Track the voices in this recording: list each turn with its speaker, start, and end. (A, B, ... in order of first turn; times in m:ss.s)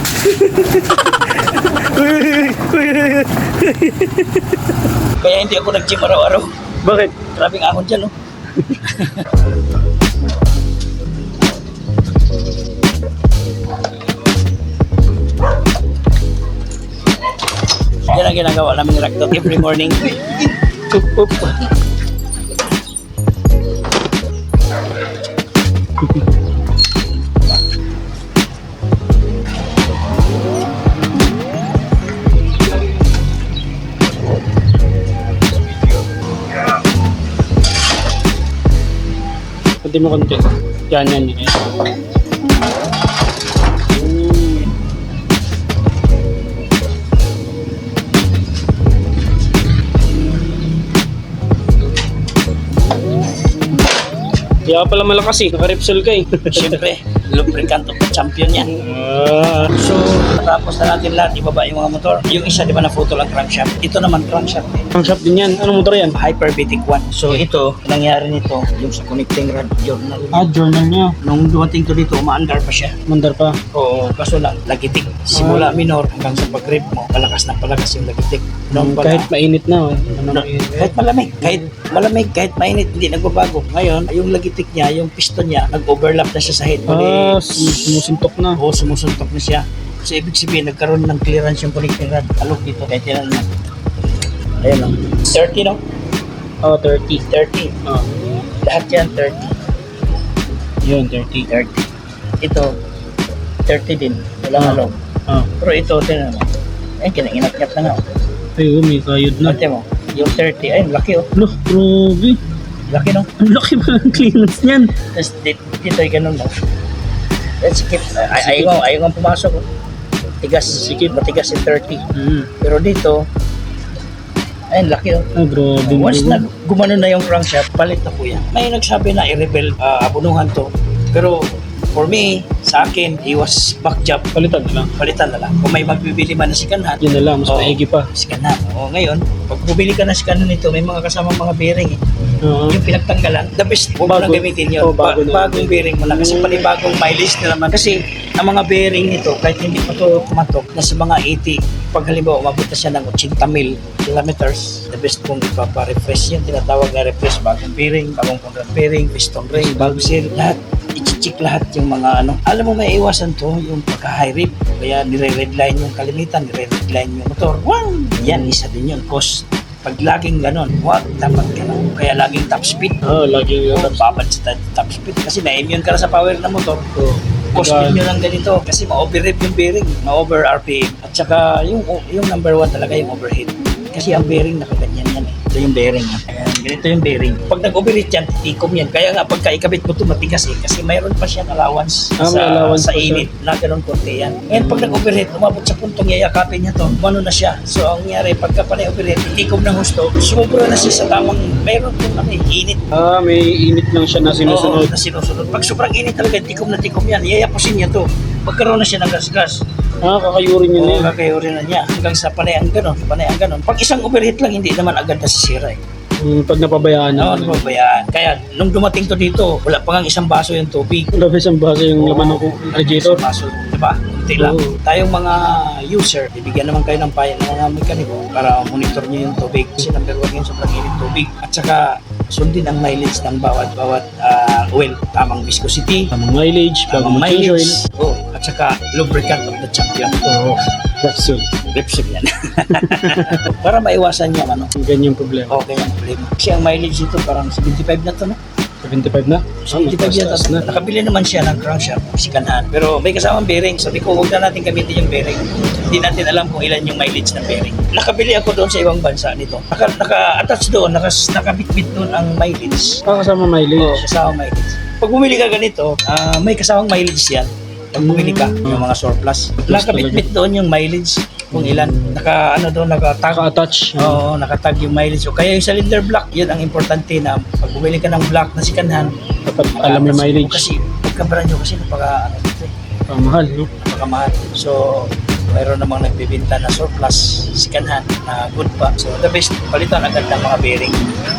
0:00.2-0:04.5 A
0:05.2-0:06.5 B
0:06.8-0:07.2 A
0:07.2-0:08.1 B
0:08.7-0:09.2 B
0:18.1-0:20.4 B
0:19.4-0:19.6 A
0:20.9-0:21.6 A
0:39.8-0:41.6 A
0:43.9-0:44.7 A
0:54.7-0:56.8 A
0:56.5-0:58.7 B
0:58.6-0:59.8 A
0:59.7-1:04.9 B
1:04.9-1:06.1 A
1:06.1-1:10.5 B
1:10.3-1:11.1 A
1:11.2-1:13.0 B
1:13.1-1:13.6 A
1:13.7-1:19.3 B
1:15.3-1:15.8 A
1:18.7-1:21.7 A
1:20.3-1:28.0 B
1:26.9-1:28.6 A
1:28.6-1:33.5 B
1:34.6-1:35.8 B
1:36.6-1:37.2 A
1:37.2-1:37.7 B
1:38.6-1:39.5 B
1:40.8-1:41.5 A
1:41.4-1:41.9 B
1:42.4-1:42.7 B
1:43.6-1:45.0 B
1:44.6-1:45.5 A
1:45.6-1:46.5 B
1:47.0-1:48.0 B
1:48.6-1:49.6 A
1:49.4-1:51.3 B
1:51.3-1:52.4 A
1:52.9-1:53.3 B
1:53.4-1:54.9 A
1:55.0-1:56.5 B
1:57.6-1:59.6 B
1:58.4-1:58.8 A
2:00.4-2:02.0 B
2:00.7-2:01.1 A
2:02.1-2:02.5 A
2:02.6-2:03.2 B
2:04.7-2:05.3 B
2:05.3-2:06.4 A
2:05.8-2:14.3 B
2:14.3-2:14.9 A
2:14.9-2:22.0 B
2:17.0-2:18.1 A
2:22.4-2:22.8 A
2:22.7-2:53.0 B
2:24.0-2:26.7 A
2:39.5-2:40.2 A
2:48.2-2:48.6 A
2:53.0-2:54.2 A
2:53.7-3:22.8 B
2:57.5-2:58.0 A
3:12.2-3:13.3 A
3:14.5-3:15.0 A
3:22.9-3:24.9 A
3:24.5-3:29.6 B
3:30.0-3:31.1 A
3:30.8-3:35.8 B
3:36.2-3:37.7 A
3:37.2-3:41.1 B
3:41.1-3:43.2 A
3:42.0-3:56.1 B
3:44.4-3:44.8 A
3:56.1-3:57.8 A
3:56.9-4:00.2 B
4:00.2-4:01.5 A
4:01.7-4:04.7 B
4:02.7-4:03.4 A
4:04.8-4:05.6 A
4:05.5-4:08.4 B
4:08.8-4:10.7 A
4:09.6-4:23.0 B
4:23.0-4:24.0 A
4:23.8-4:39.1 B
4:28.0-4:28.9 A
4:29.6-4:30.3 A
4:31.5-4:32.2 A
4:33.3-4:34.2 A
4:39.4-4:40.7 A
4:39.8-4:42.7 B
4:43.1-4:43.7 A
4:43.8-4:51.0 B